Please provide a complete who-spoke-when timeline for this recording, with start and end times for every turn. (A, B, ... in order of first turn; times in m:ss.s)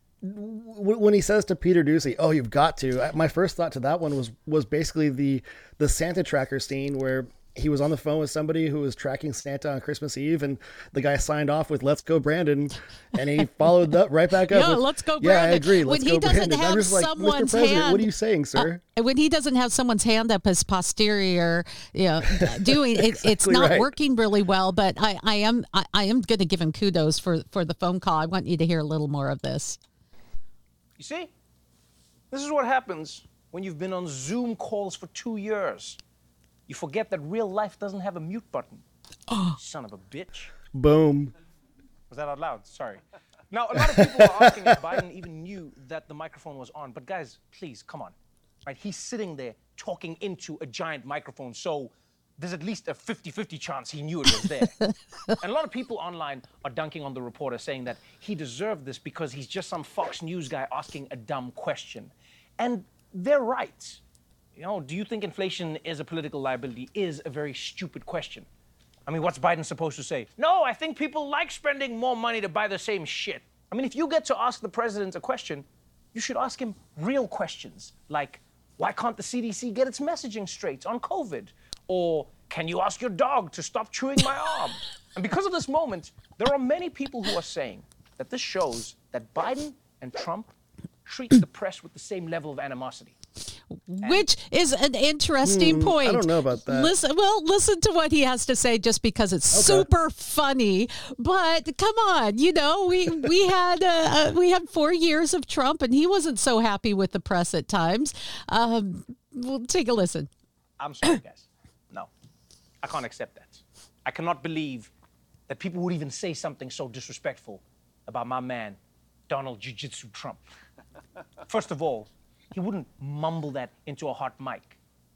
0:00.2-0:18.8 A
0:14.5-0:29.8 B
0:22.3-0:23.9 A
0:31.0-0:31.3 C
0:32.3-0:36.0 C
0:36.7-0:38.8 C
0:39.3-0:39.6 B
0:39.6-0:40.5 C
0:40.7-0:41.3 A
0:42.1-0:48.1 C
0:43.8-0:44.8 A
0:48.6-0:54.8 C
0:55.3-1:04.0 C
1:04.6-1:08.5 C
1:09.0-1:30.5 C
1:31.0-1:33.2 C
1:33.9-1:50.3 B
1:35.4-1:36.9 A
1:39.5-1:39.9 A
1:50.8-1:52.1 C
1:52.8-1:54.9 C
1:55.5-2:00.4 C
2:01.5-2:04.8 C